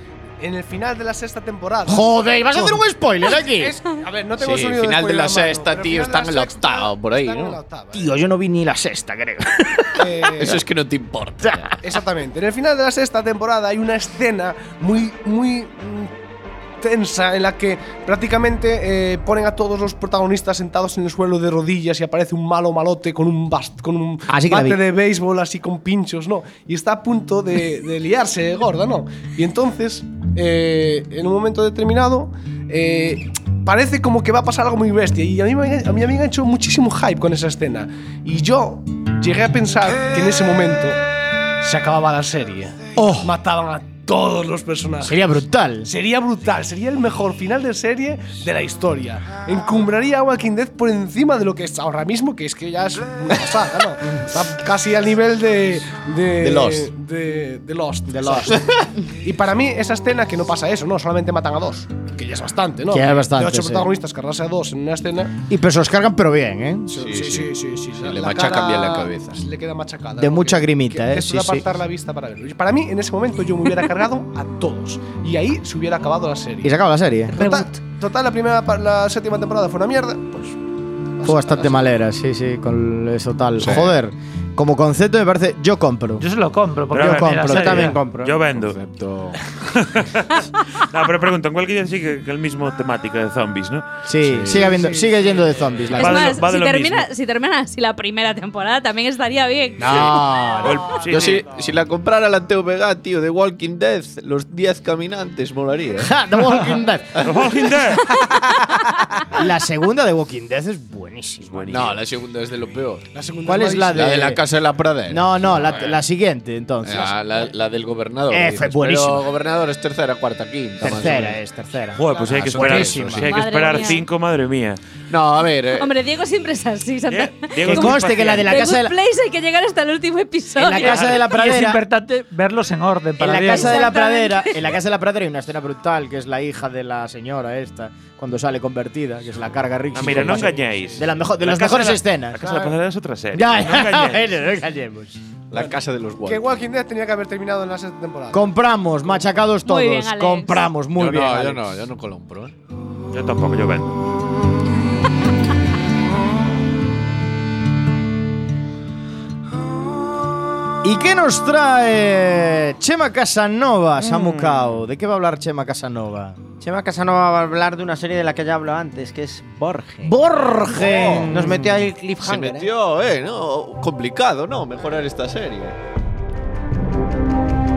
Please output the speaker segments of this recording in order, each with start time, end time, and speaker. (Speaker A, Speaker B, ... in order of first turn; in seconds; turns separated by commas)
Speaker A: 0.4-2.8, Speaker B: 1.9-3.7, Speaker A: 3.3-8.1, Speaker C: 4.4-7.6, Speaker B: 7.9-10.6, Speaker A: 10.0-10.6, Speaker C: 10.4-11.7, Speaker A: 11.8-16.1, Speaker A: 16.8-41.0, Speaker B: 24.3-24.8, Speaker A: 41.6-45.3, Speaker B: 43.0-43.3, Speaker B: 45.0-45.9, Speaker A: 45.8-65.4, Speaker C: 56.4-56.9, Speaker B: 58.1-58.6, Speaker B: 62.9-63.9, Speaker B: 65.5-67.0, Speaker A: 66.9-76.7, Speaker C: 67.0-69.4, Speaker B: 70.2-71.7, Speaker B: 76.6-77.5, Speaker A: 77.3-80.6, Speaker A: 81.2-81.8, Speaker B: 81.2-86.2, Speaker C: 83.6-83.9, Speaker D: 86.2-87.9, Speaker E: 86.9-88.8, Speaker B: 86.9-87.9, Speaker F: 87.5-88.4, Speaker C: 88.5-89.4, Speaker E: 89.7-93.8, Speaker B: 94.0-96.3, Speaker C: 94.2-94.7, Speaker A: 94.5-95.4, Speaker E: 95.9-97.1, Speaker G: 96.0-100.0, Speaker B: 99.8-100.8, Speaker E: 99.9-101.5, Speaker C: 101.1-106.1, Speaker B: 106.0-107.7, Speaker E: 107.2-108.1, Speaker B: 109.3-111.8, Speaker E: 111.4-112.0, Speaker C: 111.7-113.0, Speaker A: 113.1-114.2, Speaker B: 113.4-114.4, Speaker C: 113.9-116.0, Speaker B: 115.1-117.5, Speaker C: 116.8-121.4, Speaker B: 118.3-119.2, Speaker B: 120.8-123.3, Speaker E: 122.0-124.8, Speaker C: 122.4-123.3, Speaker G: 123.2-124.0, Speaker C: 125.1-125.9, Speaker G: 125.7-131.1, Speaker E: 127.1-128.5, Speaker B: 127.6-128.9, Speaker B: 130.6-131.8, Speaker D: 131.0-133.9, Speaker B: 133.2-142.4, Speaker G: 133.5-134.5, Speaker E: 139.9-144.3, Speaker A: 142.4-142.7, Speaker B: 143.3-145.2, Speaker C: 145.5-146.5, Speaker A: 145.5-148.5, Speaker B: 148.3-151.6, Speaker G: 149.6-150.7, Speaker C: 151.0-152.5, Speaker E: 153.1-154.0, Speaker B: 160.8-166.4, Speaker E: 164.0-164.8, Speaker F: 166.6-170.1, Speaker B: 170.0-171.8, Speaker C: 170.8-171.7, Speaker F: 171.0-172.7, Speaker C: 172.2-175.8